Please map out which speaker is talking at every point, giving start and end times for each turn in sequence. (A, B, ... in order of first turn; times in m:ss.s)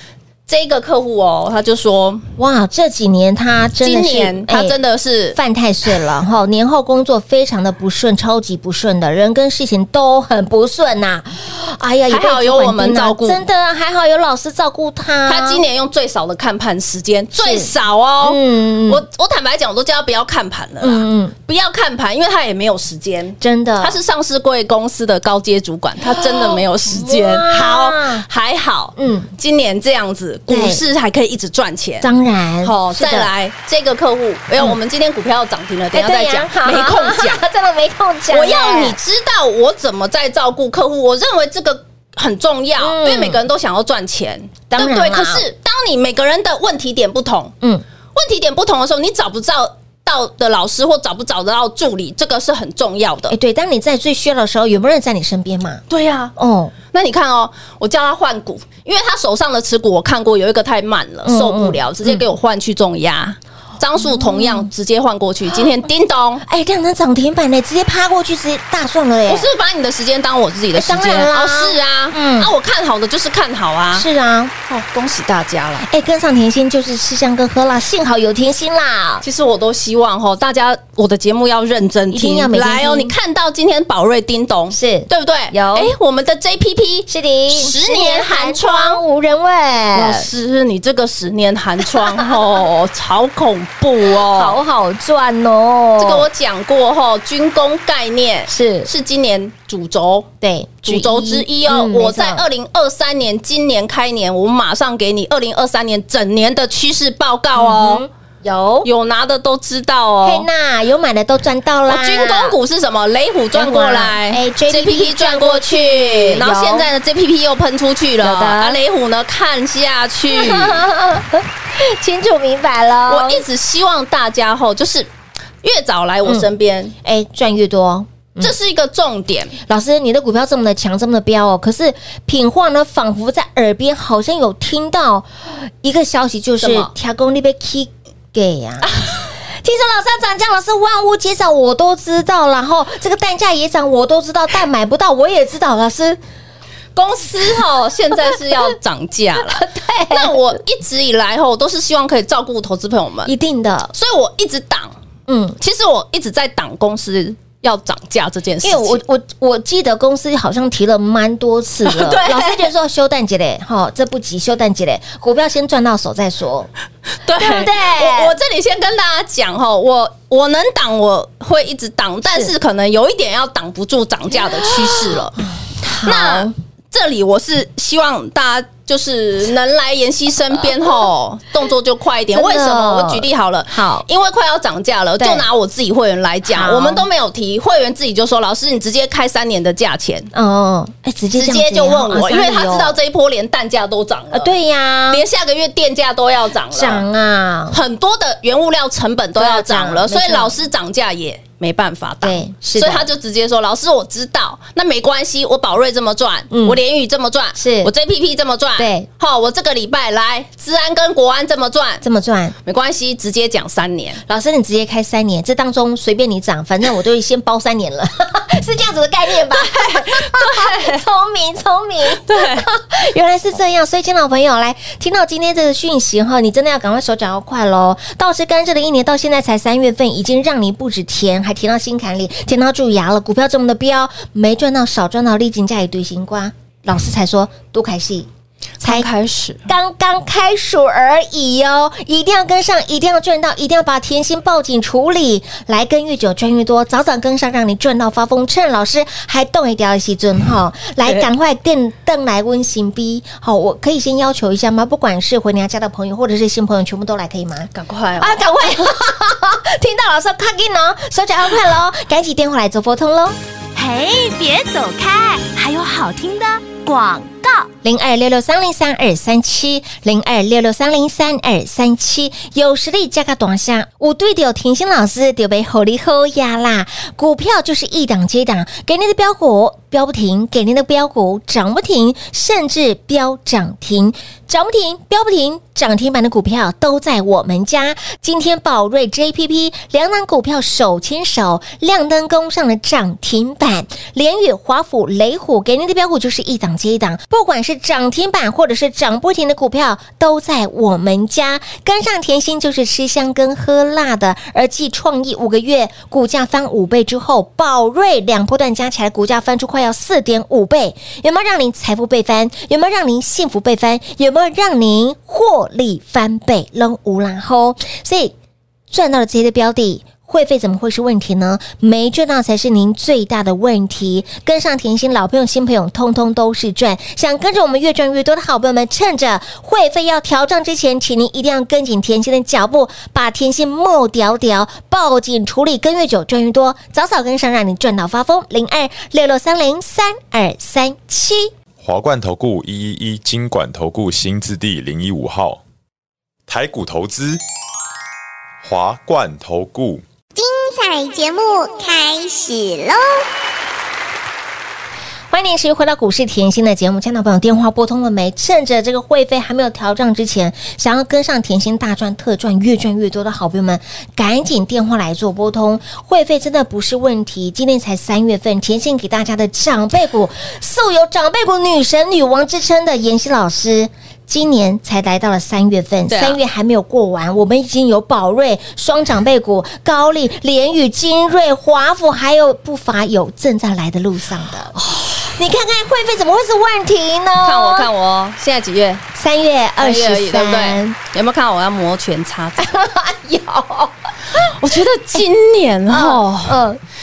0:00.5-0:02.2 A
0:02.4-0:04.8 B
0:03.8-0:05.4 A
0:05.3-0:15.6 B
0:12.1-0:13.4 A
0:15.2-0:32.1 A
0:17.3-0:19.0 B
0:20.8-0:21.4 B
0:23.4-0:24.0 B
0:26.0-0:28.3 B
0:29.0-0:29.3 B
0:30.5-0:30.8 B
0:32.0-0:33.3 B
0:32.6-0:37.4 A
0:35.9-0:39.0 B
0:38.3-0:47.6 A
0:42.8-0:43.4 B
0:44.7-0:45.4 B
0:48.2-0:53.3 A
0:53.3-0:55.8 B
0:55.9-0:56.3 A
0:56.4-0:56.7 B
0:56.9-1:06.4 A
1:01.2-1:02.2 B
1:04.0-1:04.7 B
1:06.4-1:09.5 B
1:09.3-1:14.1 A
1:10.7-1:12.5 B
1:13.9-1:14.5 B
1:14.7-1:15.9 A
1:15.8-1:19.2 B
1:19.2-1:29.0 A
1:22.1-1:23.2 B
1:24.7-1:25.9 B
1:27.1-1:30.3 B
1:29.9-1:34.6 A
1:31.8-1:32.3 B
1:34.2-1:36.3 B
1:36.0-1:40.3 A
1:38.5-1:38.9 B
1:40.4-1:42.5 B
1:40.8-1:48.0 A
1:47.6-1:48.9 B
1:48.8-1:50.5 A
1:50.2-1:52.6 B
1:51.9-2:00.8 A
1:53.5-1:56.9 B
1:58.2-1:58.8 B
2:00.3-2:03.4 B
2:03.1-2:05.1 A
2:05.6-2:06.9 A
2:06.2-2:06.5 B
2:07.0-2:08.5 B
2:08.4-2:09.5 A
2:09.7-2:18.9 B
2:16.6-2:16.9 A
2:18.8-2:19.2 A
2:19.6-2:26.2 B
2:27.0-2:33.3 A
2:28.2-2:28.7 B
2:29.4-2:30.4 B
2:33.2-2:33.9 B
2:33.9-2:34.9 A
2:35.3-2:35.6 B
2:35.6-2:39.0 A
2:38.6-2:46.7 B
2:41.8-2:42.7 A
2:47.2-2:55.4 A
2:47.4-2:48.4 B
2:52.2-2:52.5 B
2:54.4-2:56.6 B
2:56.0-3:10.3 A
3:02.3-3:04.1 B
3:05.2-3:05.5 B
3:06.4-3:07.1 B
3:10.3-3:13.0 B
3:11.4-3:14.5 A
3:14.3-3:15.2 B
3:15.1-3:17.0 A
3:16.7-3:17.8 B
3:17.7-3:32.0 A
3:19.4-3:20.5 B
3:22.2-3:23.1 B
3:26.5-3:26.8 B
3:27.6-3:27.9 B
3:28.8-3:29.1 B
3:32.0-3:32.6 B
3:32.6-3:34.2 A
3:34.3-3:58.3 B
3:39.5-3:41.0 A
3:42.2-3:42.7 A
3:58.8-3:59.6 A
3:59.7-4:23.4 B
4:17.7-4:18.4 A
4:23.8-4:27.7 C
4:27.8-5:18.3 B
5:18.9-5:41.5 B
5:41.8-5:45.6 D
5:46.5-5:47.4 D
5:48.6-5:50.0 D
5:50.4-5:53.2 E
5:55.3-6:27.9 B
6:16.1-6:16.4 A
6:27.4-6:29.0 A
6:29.2-6:31.0 B
6:29.8-6:32.7 A
6:32.6-6:34.4 B
6:34.4-6:36.6 A
6:35.9-6:36.8 B